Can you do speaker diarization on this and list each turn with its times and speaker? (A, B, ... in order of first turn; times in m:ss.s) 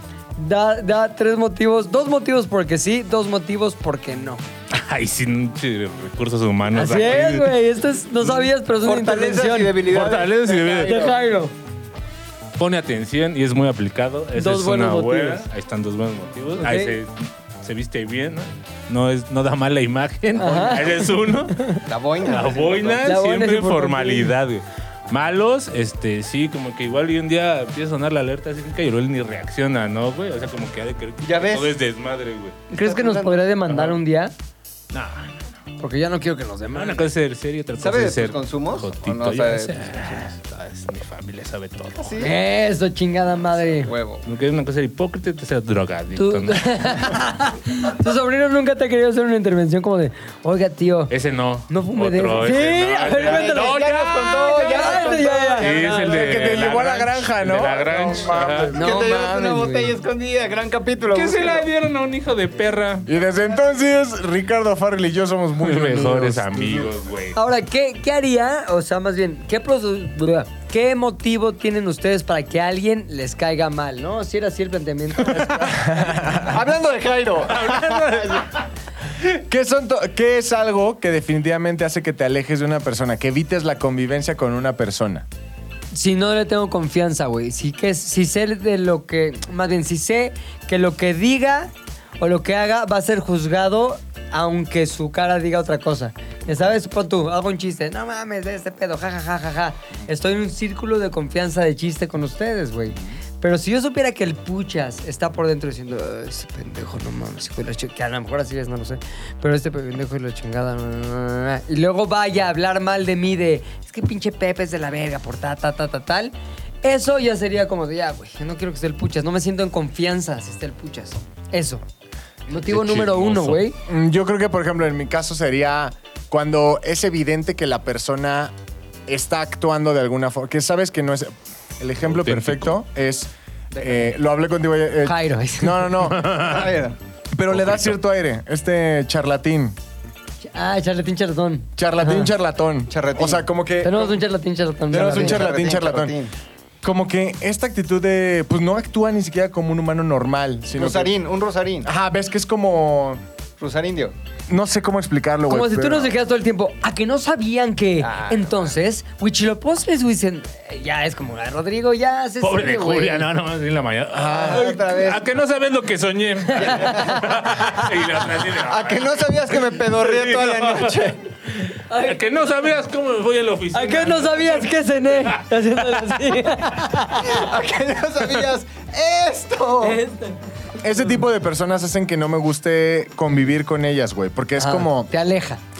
0:00.4-0:04.4 A
0:04.7-0:07.6 B
0:06.7-0:09.8 A
0:08.8-0:11.2 C
0:09.8-0:11.1 B
0:10.8-0:11.5 A
0:12.6-0:32.6 B
0:14.4-0:15.4 A
0:16.6-0:17.0 A
0:20.4-0:21.8 A
0:21.9-0:23.2 C
0:23.0-0:24.3 A
0:31.2-0:31.8 C
0:32.7-0:34.3 A
0:32.8-0:33.4 C
0:33.7-0:34.0 B
0:34.9-0:35.5 B
0:35.8-0:37.1 A
0:36.7-0:42.3 B
0:37.8-0:40.3 C
0:42.0-0:42.4 C
0:42.2-0:43.9 A
0:43.8-0:44.2 C
0:44.2-0:47.1 B
0:46.2-0:51.1 A
0:51.1-0:58.8 B
0:51.7-0:53.8 A
0:53.1-0:56.4 C
0:54.4-0:56.1 A
0:56.1-0:58.9 D
0:58.7-1:01.7 C
0:58.7-1:00.0 A
1:01.1-1:03.1 B
1:03.0-1:06.9 D
1:05.6-1:07.4 B
1:07.4-1:15.8 A
1:15.4-1:16.6 D
1:16.3-1:18.5 C
1:17.5-1:18.6 B
1:19.2-1:25.3 D
1:25.9-1:56.3 A
1:56.8-2:01.8 A
2:02.5-2:03.8 A
2:02.5-2:03.6 B
2:03.9-2:08.5 D
2:09.1-2:16.4 D
2:12.1-2:12.7 B
2:13.7-2:14.1 C
2:15.0-2:16.0 A
2:16.0-2:16.7 B
2:16.3-2:17.0 C
2:17.3-2:19.8 D
2:17.5-2:18.0 B
2:20.4-2:22.3 A
2:21.8-2:24.2 D
2:22.9-2:23.4 C
2:23.8-2:25.4 A
2:24.9-2:26.2 D
2:25.0-2:26.3 C
2:26.8-2:31.1 D
2:30.8-2:31.9 C
2:31.8-2:33.2 D
2:33.6-2:34.1 C
2:34.5-2:36.2 D
2:35.5-2:43.3 A
2:38.0-2:38.6 C
2:42.4-2:51.0 B
2:44.1-2:44.7 D
2:44.2-2:45.2 C
2:46.6-2:47.8 C
2:46.6-2:47.3 A
2:48.5-2:51.2 C
2:51.7-2:52.3 A
2:51.9-2:56.2 B
2:53.7-2:57.5 A
2:57.2-3:00.0 C
2:59.8-3:00.4 A
3:00.8-3:05.1 D
3:04.6-3:05.6 A